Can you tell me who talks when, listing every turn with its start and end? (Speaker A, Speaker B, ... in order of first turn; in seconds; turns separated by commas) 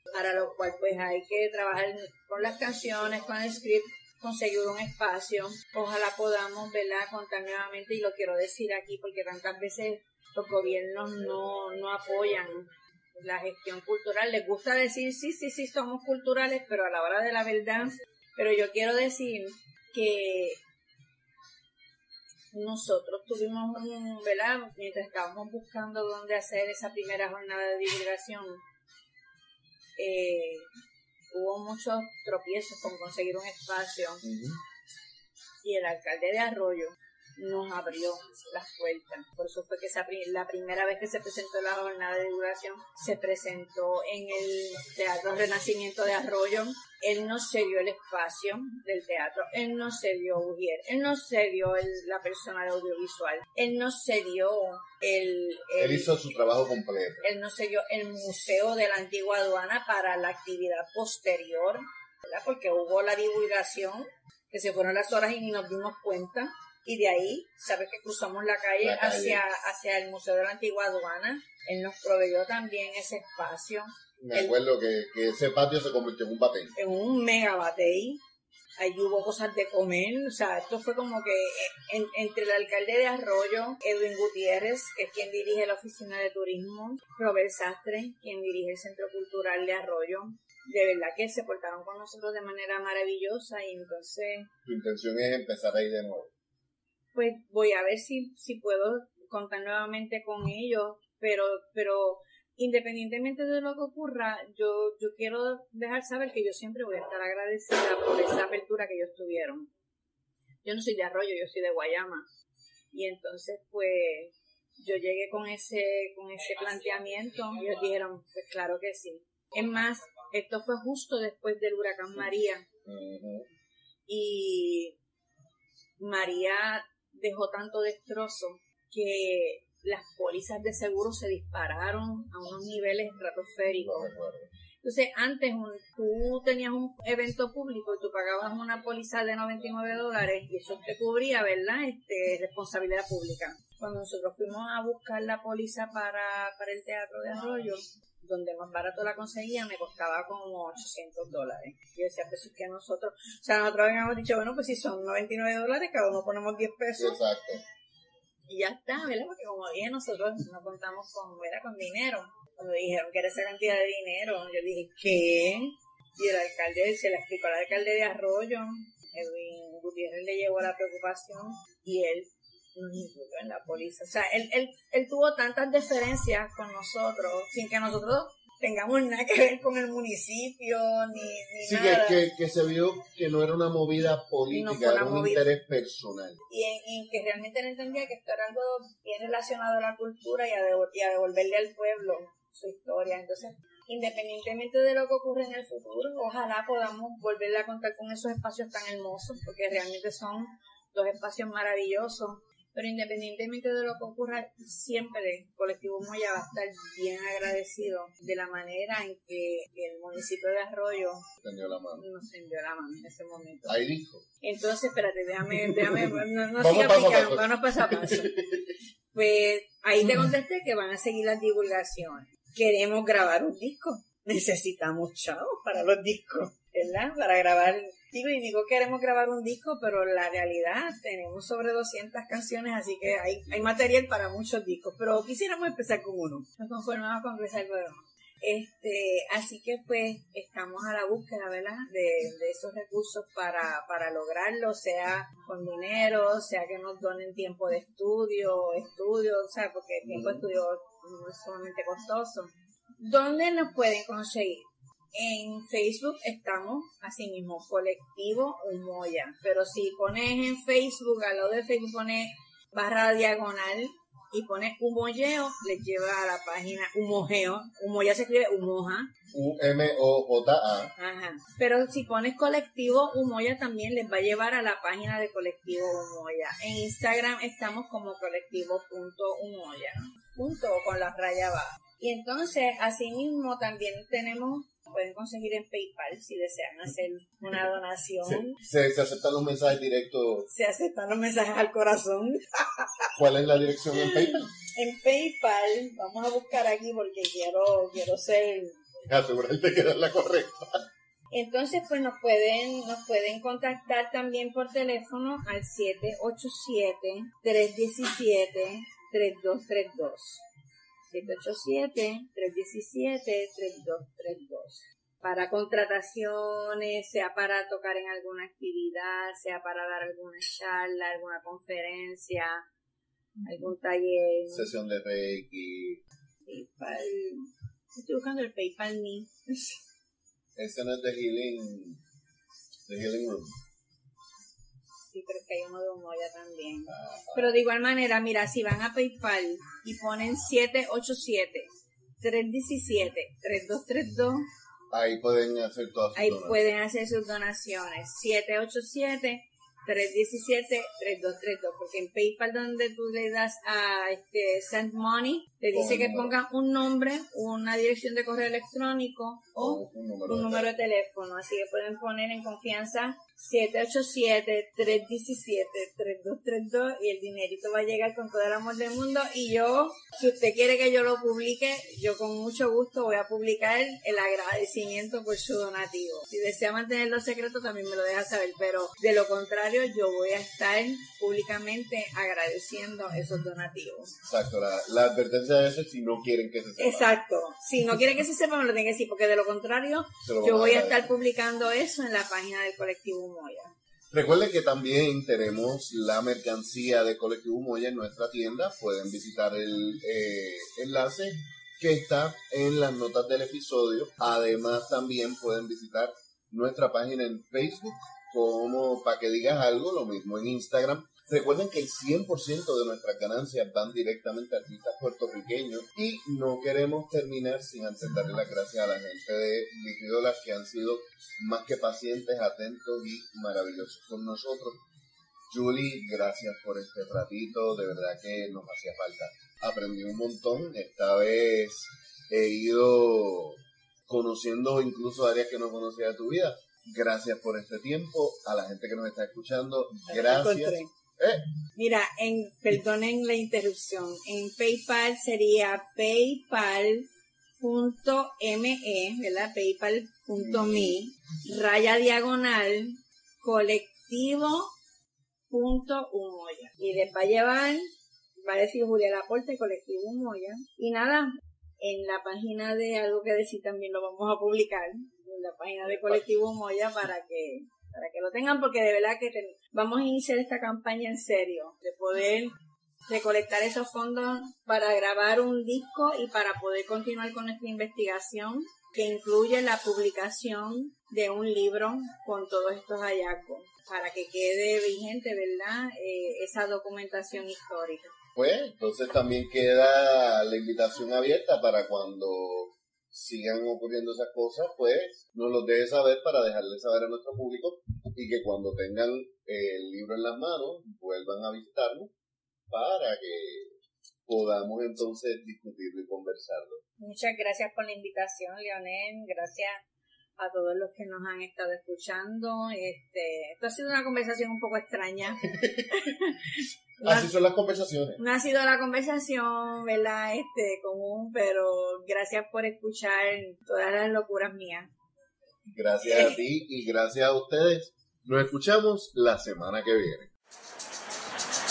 Speaker A: 0.1-20.6, Speaker A: 22.5-28.6, Speaker A: 30.0-30.7, Speaker A: 31.3-34.2, Speaker B: 34.2-34.6, Speaker A: 35.6-56.1, Speaker B: 55.8-57.3, Speaker A: 57.2-74.5, Speaker B: 68.8-69.4, Speaker B: 74.2-76.7, Speaker A: 76.8-78.2, Speaker A: 78.8-94.5, Speaker B: 94.7-96.3, Speaker A: 97.1-109.7, Speaker A: 110.6-112.3, Speaker A: 112.9-122.7, Speaker B: 122.8-123.5, Speaker A: 124.1-125.0, Speaker A: 126.0-134.1, Speaker B: 133.8-134.5, Speaker A: 134.8-157.2, Speaker B: 157.0-157.6, Speaker A: 158.5-182.2, Speaker B: 181.6-186.4, Speaker A: 184.5-185.5, Speaker A: 186.5-211.3, Speaker B: 211.4-212.1, Speaker A: 212.0-213.8, Speaker B: 213.7-214.2, Speaker A: 214.4-218.4, Speaker B: 215.6-218.8, Speaker A: 219.1-269.1, Speaker B: 250.0-250.5, Speaker B: 269.3-270.9, Speaker A: 271.0-288.6, Speaker B: 288.2-290.5, Speaker A: 290.5-293.1, Speaker B: 293.1-294.5, Speaker A: 293.9-298.8, Speaker B: 299.1-300.8, Speaker A: 301.3-310.4, Speaker A: 311.1-322.6, Speaker A: 323.4-324.7, Speaker B: 324.5-326.0, Speaker A: 326.5-329.8, Speaker B: 330.6-332.0, Speaker B: 332.9-333.6, Speaker A: 335.1-344.5, Speaker B: 336.9-337.6, Speaker B: 344.9-346.7, Speaker A: 346.1-384.1, Speaker B: 355.7-356.4, Speaker B: 359.6-360.7, Speaker B: 384.2-387.1, Speaker A: 386.8-393.7, Speaker B: 390.2-391.1, Speaker B: 394.1-424.8, Speaker B: 425.5-441.4, Speaker A: 440.1-440.9, Speaker A: 441.8-447.1, Speaker A: 447.6-454.7, Speaker B: 450.4-450.9, Speaker A: 455.5-457.9, Speaker A: 458.4-472.5, Speaker B: 465.8-466.2, Speaker A: 473.1-488.1, Speaker B: 488.4-502.1, Speaker B: 502.7-506.8, Speaker A: 507.0-509.8, Speaker A: 510.4-517.3, Speaker B: 515.5-515.9, Speaker B: 517.0-518.2, Speaker A: 518.2-524.9, Speaker B: 525.7-530.3, Speaker A: 526.0-526.4